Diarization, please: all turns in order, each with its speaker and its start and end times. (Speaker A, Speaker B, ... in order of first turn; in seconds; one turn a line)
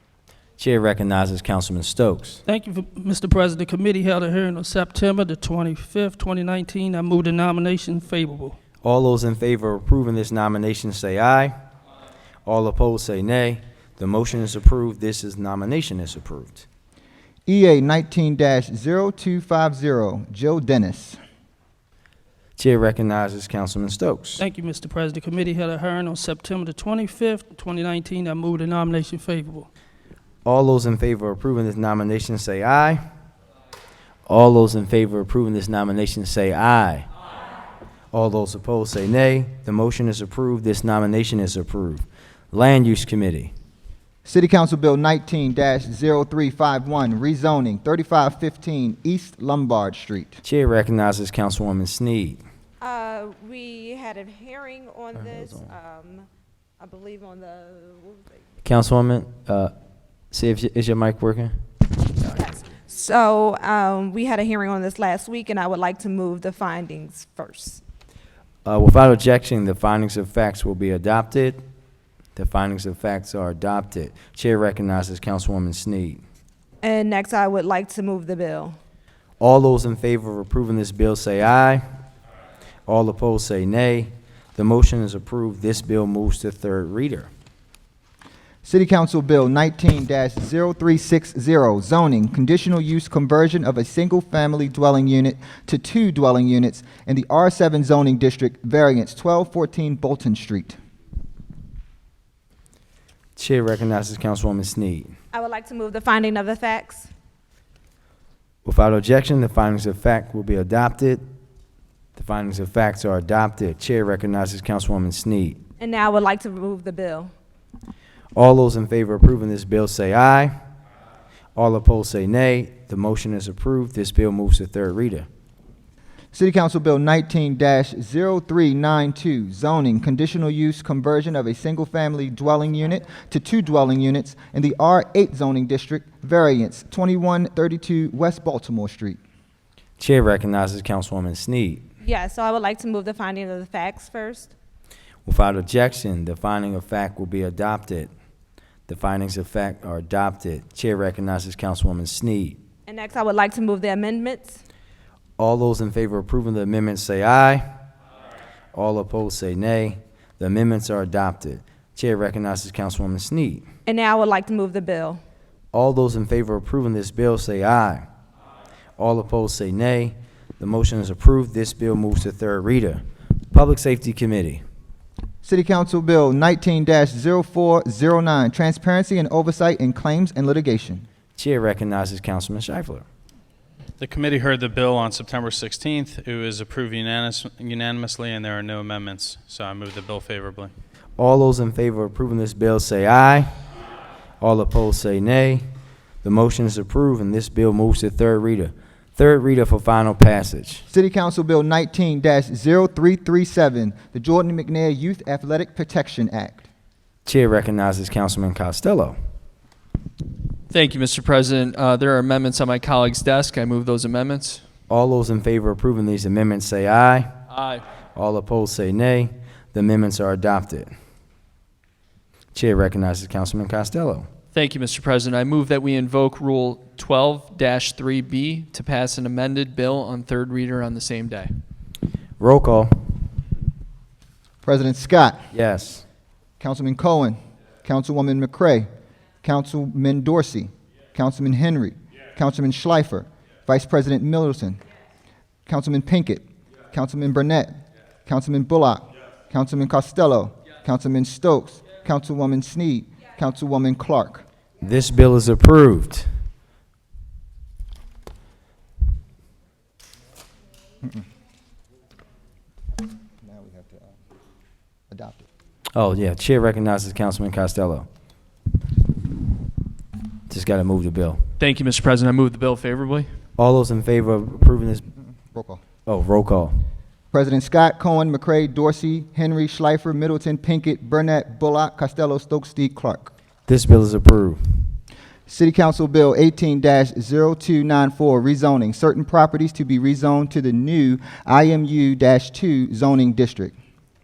Speaker A: 0.6-2.4
Speaker B: 2.5-8.6
Speaker A: 8.8-11.5
Speaker A: 12.4-16.6
Speaker C: 17.5-21.2
Speaker A: 22.6-24.4
Speaker B: 24.4-29.7
Speaker A: 30.4-33.0
Speaker A: 34.3-37.1
Speaker A: 38.1-43.5
Speaker C: 44.2-50.4
Speaker A: 50.4-52.4
Speaker D: 52.8-56.3
Speaker D: 56.8-58.4
Speaker A: 58.6-59.7
Speaker A: 60.3-61.5
Speaker D: 62.2-67.8
Speaker A: 68.7-71.6
Speaker A: 72.3-76.2
Speaker D: 76.8-78.8
Speaker A: 79.4-81.8
Speaker A: 82.9-87.3
Speaker C: 88.6-100.8
Speaker A: 103.3-105.1
Speaker D: 105.3-107.1
Speaker A: 108.6-111.2
Speaker A: 112.1-115.6
Speaker D: 115.8-117.3
Speaker A: 118.3-120.5
Speaker A: 121.5-125.3
Speaker C: 126.3-139.2
Speaker A: 140.0-141.8
Speaker D: 142.0-144.5
Speaker A: 145.2-148.1
Speaker A: 148.9-152.6
Speaker D: 152.9-154.6
Speaker A: 155.4-157.7
Speaker A: 158.7-163.6
Speaker D: 163.8-165.2
Speaker A: 165.7-168.1
Speaker A: 169.0-174.6
Speaker C: 175.4-181.1
Speaker A: 181.4-183.0
Speaker E: 184.0-190.7
Speaker A: 191.2-193.5
Speaker A: 194.4-195.6
Speaker A: 196.2-200.8
Speaker C: 200.9-206.7
Speaker A: 207.2-209.2
Speaker F: 210.7-214.6
Speaker A: 214.9-217.3
Speaker F: 217.5-217.8
Speaker A: 218.1-220.9
Speaker A: 222.5-224.3
Speaker F: 224.5-231.5
Speaker A: 232.4-233.1
Speaker C: 234.6-235.4
Speaker A: 235.5-236.0
Speaker C: 236.6-238.9
Speaker C: 239.4-244.8
Speaker C: 245.7-254.4
Speaker A: 254.8-256.3
Speaker C: 263.4-264.1
Speaker C: 265.1-265.5
Speaker A: 265.9-268.1
Speaker A: 270.5-271.4
Speaker F: 271.6-273.3
Speaker A: 273.6-275.0
Speaker C: 275.5-275.8
Speaker A: 276.1-276.7
Speaker C: 277.3-283.3
Speaker A: 283.7-284.6
Speaker C: 285.5-293.8